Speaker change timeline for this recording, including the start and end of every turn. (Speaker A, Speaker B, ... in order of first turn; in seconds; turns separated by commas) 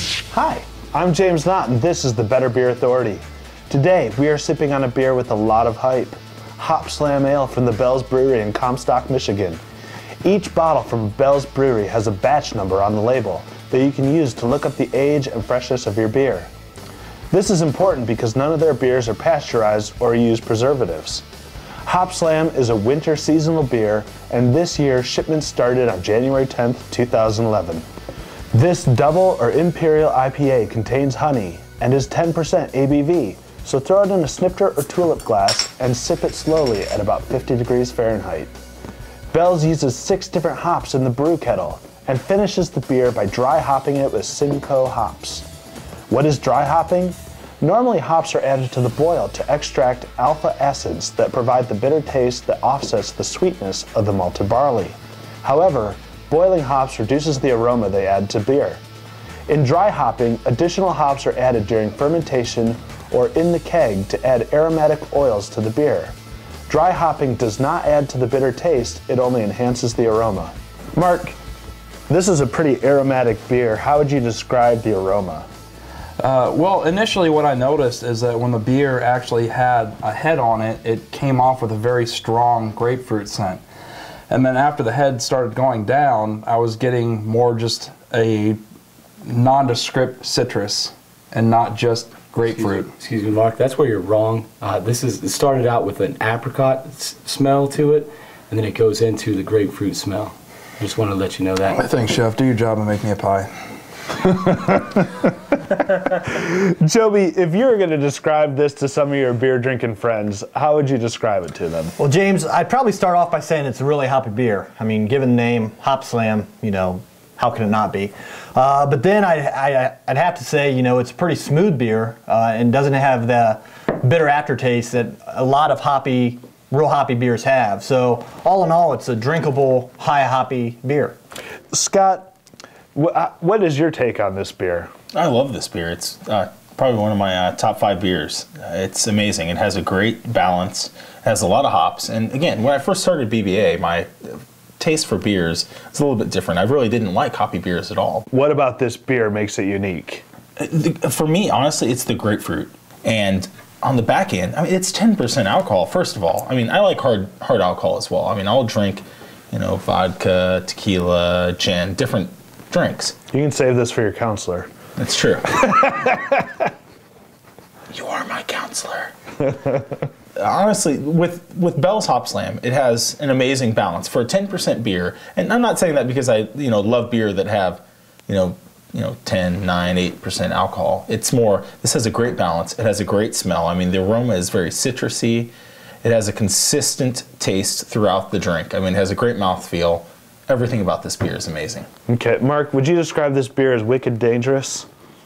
Speaker A: 0.3-0.6, Speaker B: 0.7-9.6, Speaker B: 10.2-16.5, Speaker B: 17.3-21.2, Speaker B: 21.9-27.9, Speaker B: 28.5-38.5, Speaker B: 39.3-45.5, Speaker B: 46.1-58.8, Speaker B: 59.5-66.1, Speaker B: 66.7-71.3, Speaker B: 72.1-75.5, Speaker C: 76.2-83.6, Speaker C: 84.3-88.6, Speaker C: 89.2-92.9, Speaker D: 92.5-101.8, Speaker C: 101.7-103.5, Speaker C: 104.2-104.5, Speaker B: 106.2-111.9, Speaker A: 112.0-131.2, Speaker B: 131.7-132.3, Speaker B: 132.9-134.9, Speaker E: 135.1-148.2, Speaker B: 148.3-150.2, Speaker E: 150.6-163.1, Speaker B: 163.3-164.7, Speaker E: 165.0-166.1, Speaker B: 165.7-166.4, Speaker E: 167.9-169.1, Speaker E: 170.4-191.9, Speaker B: 192.1-194.9